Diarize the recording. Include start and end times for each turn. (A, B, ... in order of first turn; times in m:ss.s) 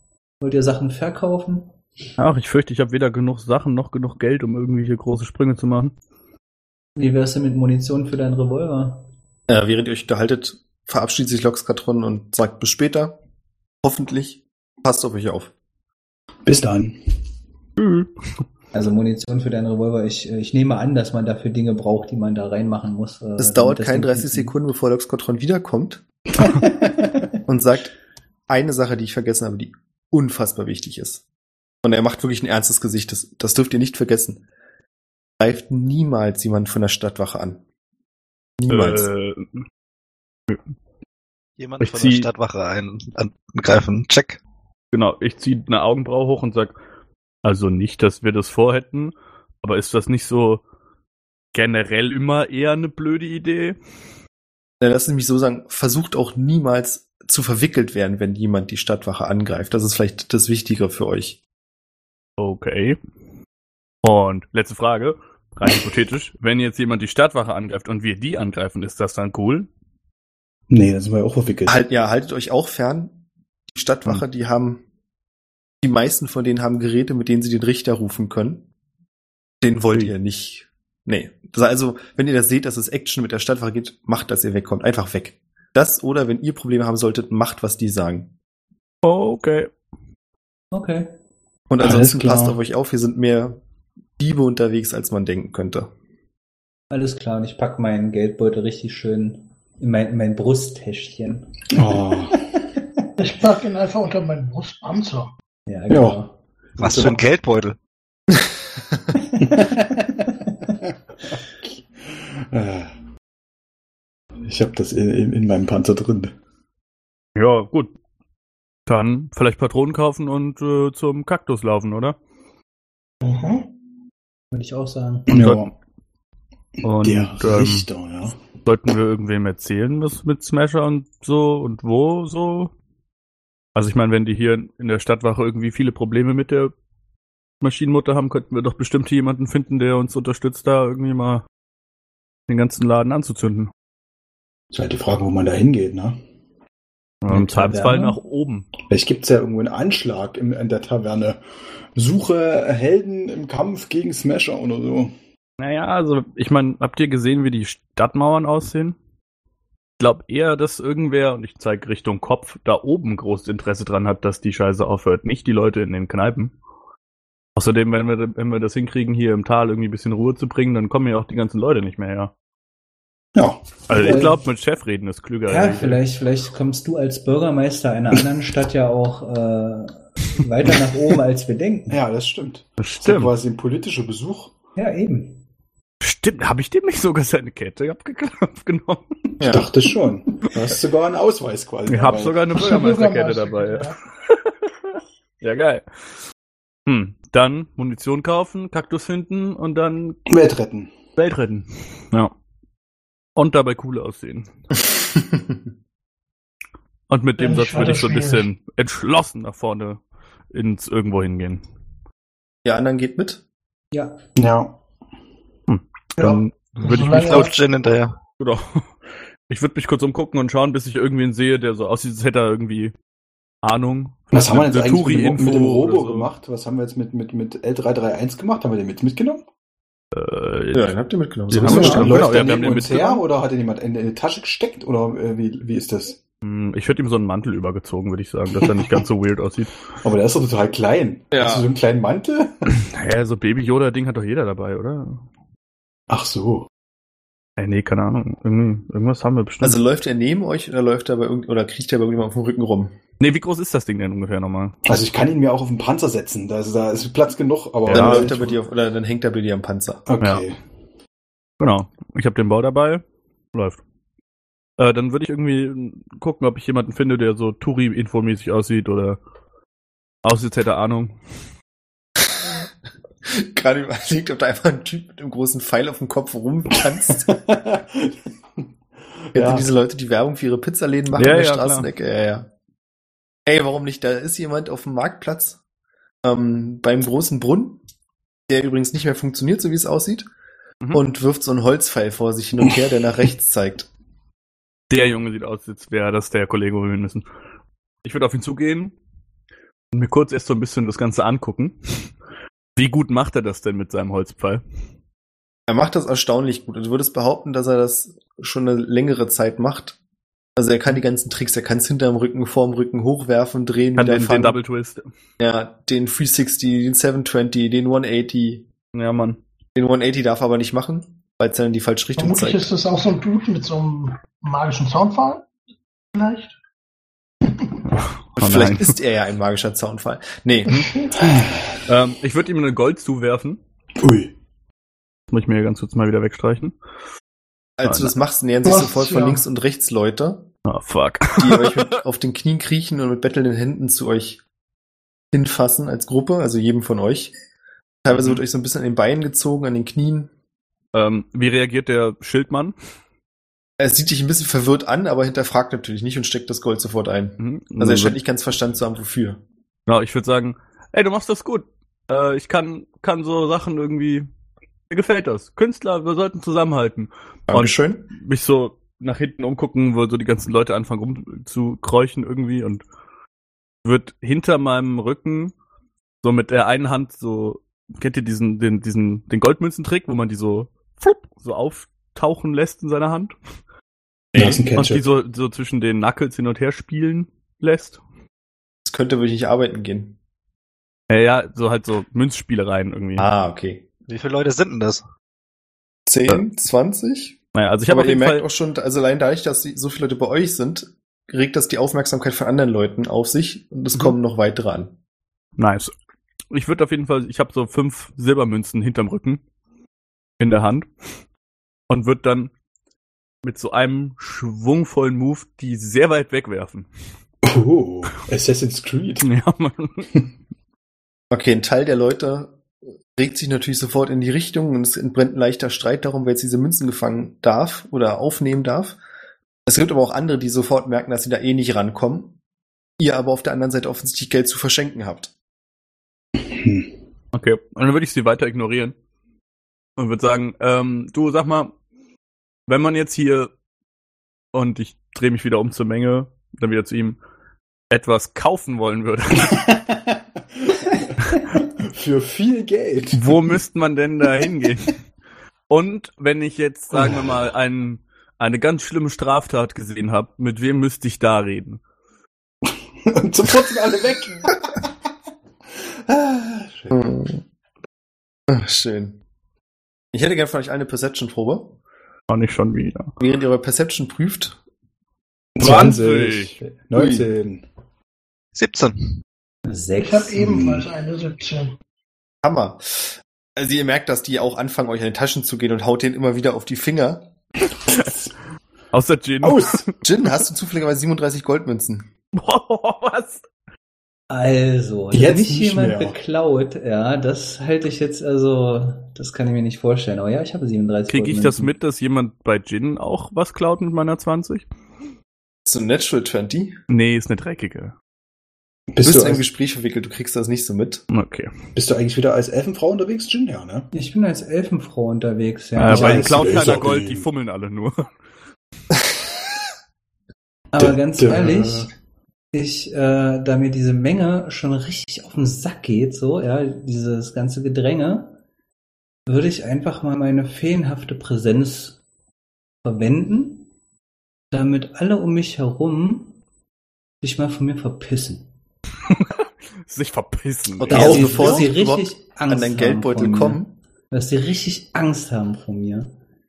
0:00.4-0:01.7 A
0:02.2-0:05.9 B
0:07.0-0:09.1 A
0:09.5-0:13.2 C
0:13.8-0:15.5 C
0:16.4-0:17.0 D
0:17.8-0:18.1 B
0:18.7-0:24.6 A
0:23.4-0:26.0 C
0:26.4-0:27.1 A
0:27.5-0:27.9 C
0:28.5-0:31.2 C
0:31.8-0:34.4 C
0:35.4-0:37.6 C
0:38.6-0:39.1 C
0:38.7-0:39.5 B
0:41.6-0:44.4 E
0:41.8-0:42.3 B
0:44.9-0:46.7 B
0:47.4-0:50.6 B
0:51.5-0:53.8 B
0:54.8-1:01.4 C
1:02.4-1:03.0 B
1:04.0-1:09.7 B
1:10.7-1:11.8 D
1:11.6-1:13.2 C
1:13.7-1:14.8 C
1:15.8-1:18.7 C
1:19.6-1:28.3 C
1:29.0-1:29.7 B
1:30.7-1:31.1 A
1:31.7-1:33.6 C
1:31.8-1:32.6 D
1:34.2-1:35.9 C
1:36.9-1:41.7 A
1:41.7-1:42.4 D
1:43.2-1:45.3 F
1:45.7-1:47.2 A
1:45.9-1:46.2 D
1:46.8-1:47.8 E
1:46.8-1:47.1 D
1:49.1-1:50.5 A
1:49.4-1:50.1 D
1:51.6-1:52.9 D
1:54.4-1:56.3 D
1:57.3-1:57.9 B
1:58.8-2:02.2 B
2:03.2-2:03.7 F
2:04.5-2:05.3 A
2:05.3-2:05.7 D
2:05.3-2:05.7 B
2:06.8-2:07.9 B
2:07.0-2:08.4 D
2:08.6-2:12.7 B
2:13.7-2:16.7 B
2:17.6-2:21.4 B
2:22.5-2:23.7 B
2:24.7-2:26.2 D
2:27.2-2:28.7 B
2:27.3-2:28.2 A
2:28.9-2:31.4 D
2:31.9-2:35.1 D
2:35.6-2:39.0 B
2:40.0-2:46.5 B
2:47.6-2:52.3 B
2:53.3-2:54.3 D
2:53.9-2:56.0 B
2:53.9-2:54.4 A
2:55.5-3:02.0 A
3:01.9-3:04.5 D
3:02.8-3:03.3 B
3:04.8-3:05.4 A
3:06.0-3:09.1 B
3:09.4-3:09.7 C
3:09.4-3:12.4 D
3:11.9-3:15.8 B
3:12.6-3:14.0 F
3:16.8-3:20.2 B
3:20.3-3:20.9 D
3:21.2-3:22.3 B
3:23.4-3:24.5 B
3:25.1-3:25.6 C
3:27.1-3:30.0 B
3:27.4-3:28.4 F
3:30.5-3:31.6 B
3:32.6-3:33.4 C
3:33.9-3:34.2 A
3:34.4-3:34.8 D
3:35.7-3:37.5 B
3:36.2-3:37.5 F
3:37.0-3:38.2 E
3:38.4-3:38.8 B
3:39.5-3:42.9 B
3:43.6-3:46.3 B
3:44.3-3:49.4 D
3:50.1-3:51.0 B
3:50.7-3:52.2 C
3:51.5-3:53.2 B
3:51.5-3:56.2 D
3:51.7-3:52.0 A
3:56.4-3:59.7 B
3:58.6-3:59.0 D
4:00.0-4:02.6 D
4:01.3-4:01.7 C
4:02.7-4:05.2 B
4:06.1-4:06.7 D
4:07.6-4:09.8 B
4:09.6-4:13.0 C
4:13.2-4:14.8 B
4:14.8-4:18.6 D
4:17.8-4:18.3 B
4:17.9-4:20.0 C
4:20.1-4:20.6 D
4:21.6-4:23.0 B
4:23.5-4:23.8 B
4:24.8-4:29.2 B
4:30.2-4:31.2 B
4:33.2-4:37.3 C
4:37.2-4:38.7 D
4:39.3-4:39.7 D
4:39.3-4:42.5 C
4:41.1-4:41.9 B
4:43.4-4:45.6 C
4:46.2-4:47.8 C
4:48.5-4:50.3 C
4:50.9-4:53.9 C
4:54.9-4:57.2 B
4:58.0-4:58.9 B
4:59.9-5:02.1 B
5:02.8-5:04.6 B
5:05.7-5:10.0 C
5:10.6-5:14.5 C
5:14.0-5:15.0 B
5:15.4-5:18.6 C
5:18.9-5:19.4 B
5:19.7-5:22.6 C
5:22.2-5:25.4 F
5:26.1-5:26.5 F
5:27.5-5:27.7 F
5:27.9-5:29.0 B
5:28.4-5:30.9 C
5:30.9-5:31.1 F
5:31.1-5:31.8 D
5:31.8-5:33.6 B
5:34.0-5:34.3 D
5:35.3-5:36.7 B
5:37.8-5:40.5 C
5:37.8-5:38.1 B
5:38.6-5:39.4 F
5:40.6-5:41.9 B
5:41.4-5:44.4 C
5:45.3-5:47.3 C
5:48.0-5:50.3 C
5:48.1-5:48.4 B
5:50.9-5:52.7 B
5:53.8-5:59.4 C
5:57.4-5:58.2 B
5:59.9-6:04.3 B
6:04.9-6:12.8 B
6:07.5-6:08.1 C
6:13.8-6:15.5 B
6:16.2-6:23.3 B
6:24.3-6:24.6 C
6:24.4-6:25.0 D
6:24.8-6:28.0 B
6:28.8-6:30.2 C
6:31.1-6:33.3 B
6:33.2-6:33.8 C
6:34.1-6:35.0 E
6:36.0-6:37.4 C
6:37.5-6:38.4 B
6:37.9-6:44.9 C
6:45.6-6:45.9 B
6:46.5-6:49.4 B
6:50.4-6:50.9 B
6:51.9-6:52.5 B
6:53.4-6:56.9 B
6:57.4-6:59.3 D
6:59.2-7:00.1 B
7:01.3-7:02.6 C
7:03.2-7:09.0 C
7:09.6-7:12.4 C
7:13.0-7:15.3 C
7:16.4-7:16.9 D
7:17.3-7:18.9 B
7:20.0-7:21.7 B
7:22.7-7:23.5 B
7:24.5-7:27.2 B
7:27.9-7:29.6 B
7:29.4-7:33.6 D
7:33.1-7:35.0 B
7:35.7-7:41.8 B
7:36.9-7:37.4 D
7:42.6-7:44.9 D
7:45.8-7:47.0 D
7:46.9-7:47.4 C
7:48.5-7:49.2 C
7:50.1-7:51.7 C
7:52.3-7:53.1 B
7:53.2-7:54.6 C
7:55.6-7:57.6 D
7:55.6-7:56.5 B
7:56.9-7:57.2 C
7:58.5-7:59.1 E
7:59.7-8:00.3 A
8:00.0-8:01.8 F
8:00.4-8:00.9 D
8:02.4-8:07.3 C
8:07.8-8:08.3 D
8:08.9-8:09.9 B
8:09.4-8:09.8 D
8:10.0-8:12.1 C
8:12.3-8:13.4 B
8:14.3-8:21.7 A
8:15.1-8:16.2 D
8:21.1-8:24.6 B
8:25.6-8:26.7 C
8:26.9-8:27.9 B
8:28.9-8:29.4 D
8:29.0-8:31.0 C
8:31.1-8:31.5 B
8:31.7-8:33.9 D
8:33.9-8:36.5 A
8:35.8-8:38.1 B
8:35.9-8:37.3 D
8:40.7-8:41.9 A
8:40.8-8:41.9 D
8:42.5-8:48.4 A
8:49.2-8:52.0 A
8:52.8-8:53.7 A
8:54.5-8:56.4 A
8:57.2-8:58.5 A
8:59.1-9:01.3 B
9:00.8-9:03.7 C
9:00.9-9:01.7 D
9:00.9-9:06.1 A